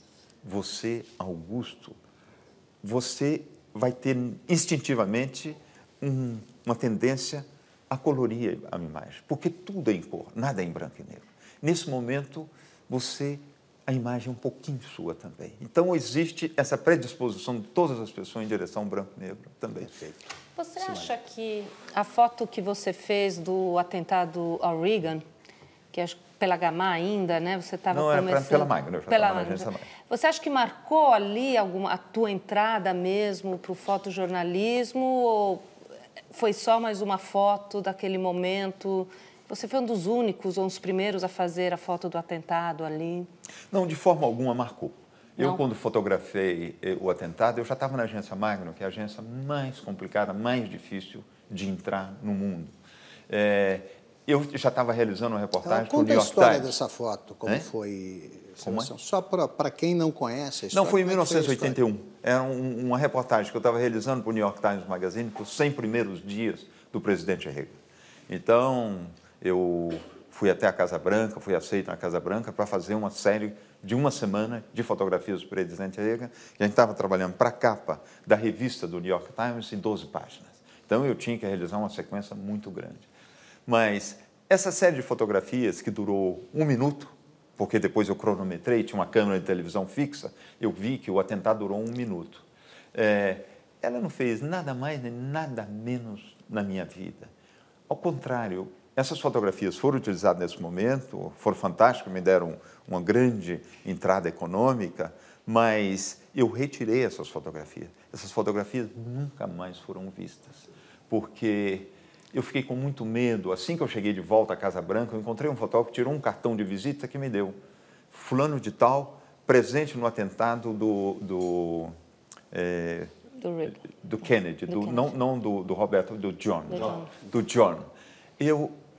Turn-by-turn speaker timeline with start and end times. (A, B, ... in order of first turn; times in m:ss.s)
0:00.4-0:02.0 A
0:02.8-0:20.0 A
0:19.9-0:20.1 B
0:20.6-0:25.2 C
0:25.9-0:35.7 C
0:27.9-0:29.9 A
0:36.3-0:43.3 C
0:43.7-0:52.7 A
0:53.3-0:56.7 A
0:55.6-1:01.8 B
0:58.6-0:58.9 A
1:00.7-1:07.8 A
1:08.3-1:23.1 A
1:23.7-1:37.3 A
1:37.9-1:57.6 A
1:58.1-2:02.0 A
2:02.5-2:03.1 A
2:03.4-2:03.8 C
2:03.7-2:07.9 A
2:04.7-2:05.1 C
2:06.7-2:07.1 C
2:08.4-2:08.8 A